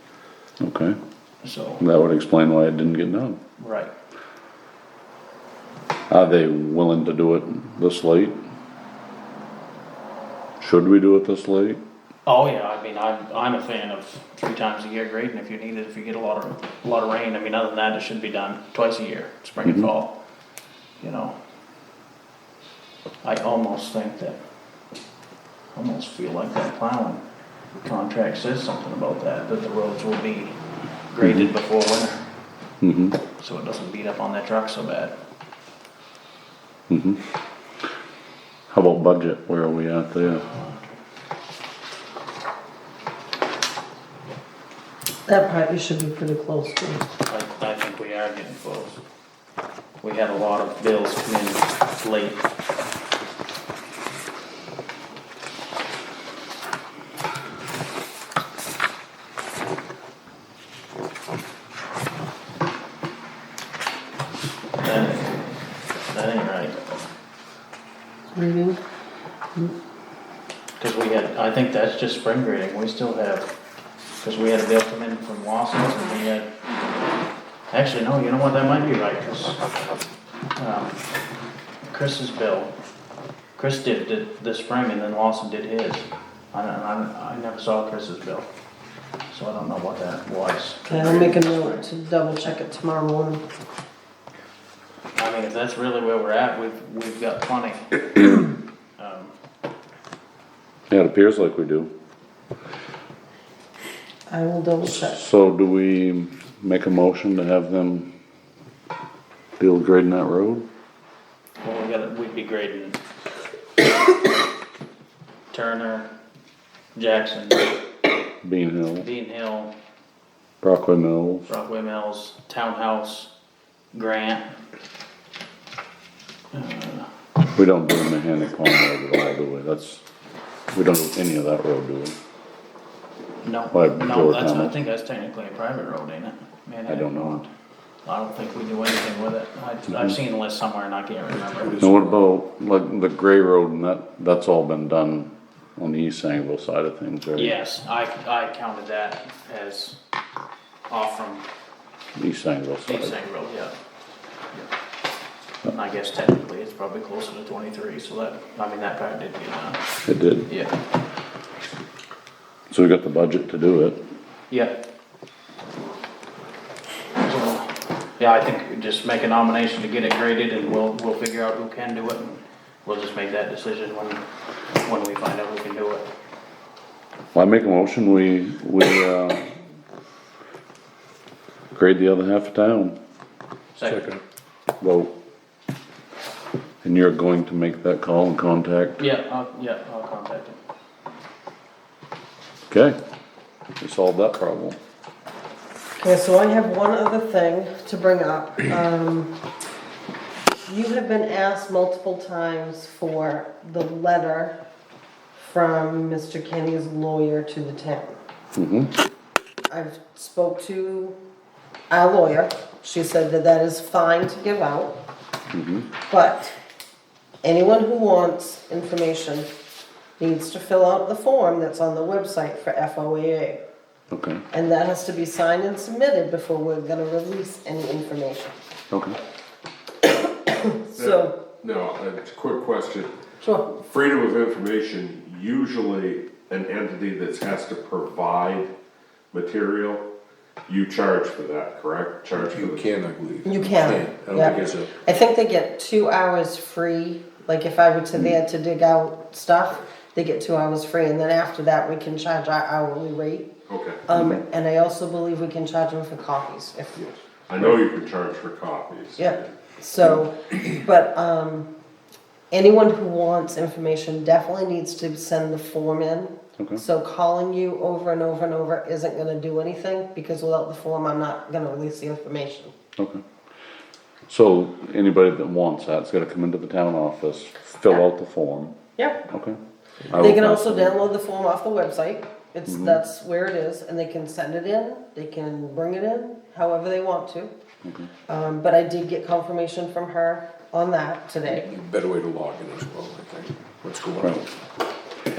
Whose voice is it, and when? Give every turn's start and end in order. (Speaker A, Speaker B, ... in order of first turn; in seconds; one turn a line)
Speaker A: 0.6-1.0
Speaker B: 1.4-1.8
Speaker A: 1.8-3.4
Speaker B: 3.6-3.9
Speaker A: 6.1-8.4
Speaker A: 10.6-11.8
Speaker B: 12.3-20.1
Speaker A: 19.6-19.9
Speaker B: 21.0-21.4
Speaker B: 23.2-24.4
Speaker B: 25.7-27.2
Speaker B: 27.8-30.6
Speaker B: 31.1-32.2
Speaker A: 31.2-31.5
Speaker A: 32.8-33.2
Speaker B: 33.4-35.2
Speaker A: 36.9-37.2
Speaker A: 38.7-40.5
Speaker B: 40.4-41.0
Speaker C: 45.3-47.1
Speaker B: 47.3-49.0
Speaker B: 50.0-52.4
Speaker B: 64.8-65.6
Speaker B: 66.1-66.9
Speaker C: 68.3-68.8
Speaker B: 70.8-73.5
Speaker B: 74.2-76.5
Speaker B: 77.7-79.6
Speaker B: 80.6-81.0
Speaker B: 81.9-82.7
Speaker B: 83.6-88.5
Speaker B: 89.3-91.8
Speaker C: 90.9-93.4
Speaker B: 95.2-99.3
Speaker A: 100.9-101.9
Speaker C: 104.3-105.2
Speaker A: 104.8-108.1
Speaker A: 109.6-110.7
Speaker B: 111.6-113.0
Speaker B: 115.5-116.1
Speaker B: 117.0-117.7
Speaker A: 118.4-119.1
Speaker B: 119.0-119.7
Speaker A: 120.6-121.5
Speaker B: 121.5-123.3
Speaker B: 123.9-124.5
Speaker B: 126.5-127.1
Speaker A: 127.5-130.0
Speaker A: 130.7-132.2
Speaker B: 133.4-137.4
Speaker A: 133.7-134.8
Speaker A: 136.9-137.5
Speaker B: 138.1-141.8
Speaker D: 141.6-142.2
Speaker A: 141.8-147.5
Speaker B: 147.4-150.0
Speaker B: 150.9-151.4
Speaker A: 152.2-153.2
Speaker B: 152.9-153.8
Speaker B: 155.7-159.8
Speaker A: 160.1-160.5
Speaker B: 160.5-160.8
Speaker A: 162.7-164.0
Speaker B: 164.5-164.8
Speaker B: 167.2-174.2
Speaker B: 174.8-176.1
Speaker A: 177.3-179.5
Speaker A: 181.7-183.0
Speaker B: 183.8-184.1
Speaker A: 184.8-185.1
Speaker A: 186.8-189.0
Speaker B: 189.0-190.6
Speaker A: 192.7-193.0
Speaker A: 193.8-194.8
Speaker C: 196.0-199.3
Speaker C: 200.7-204.6
Speaker C: 205.4-208.2
Speaker A: 208.6-208.9
Speaker C: 209.7-211.2
Speaker C: 211.9-215.0
Speaker A: 215.5-215.9
Speaker C: 216.1-216.6
Speaker C: 217.4-219.5
Speaker C: 220.2-223.6
Speaker A: 224.1-224.4
Speaker C: 224.5-228.6
Speaker A: 228.9-229.2
Speaker C: 230.4-231.4
Speaker E: 231.0-233.1
Speaker C: 233.4-233.7
Speaker E: 233.7-238.7
Speaker E: 239.3-240.1
Speaker E: 240.7-242.9
Speaker D: 242.3-245.0
Speaker C: 243.4-253.5
Speaker E: 244.4-244.8
Speaker E: 253.7-254.0
Speaker C: 254.1-257.0
Speaker A: 254.1-254.4
Speaker E: 257.0-259.5
Speaker C: 259.2-261.7
Speaker C: 262.5-272.7
Speaker A: 274.3-278.8
Speaker C: 279.0-279.2
Speaker A: 279.3-279.6
Speaker A: 280.1-281.0
Speaker C: 280.1-287.5
Speaker A: 282.7-283.0
Speaker A: 287.8-288.1
Speaker C: 288.3-291.7
Speaker D: 291.4-294.4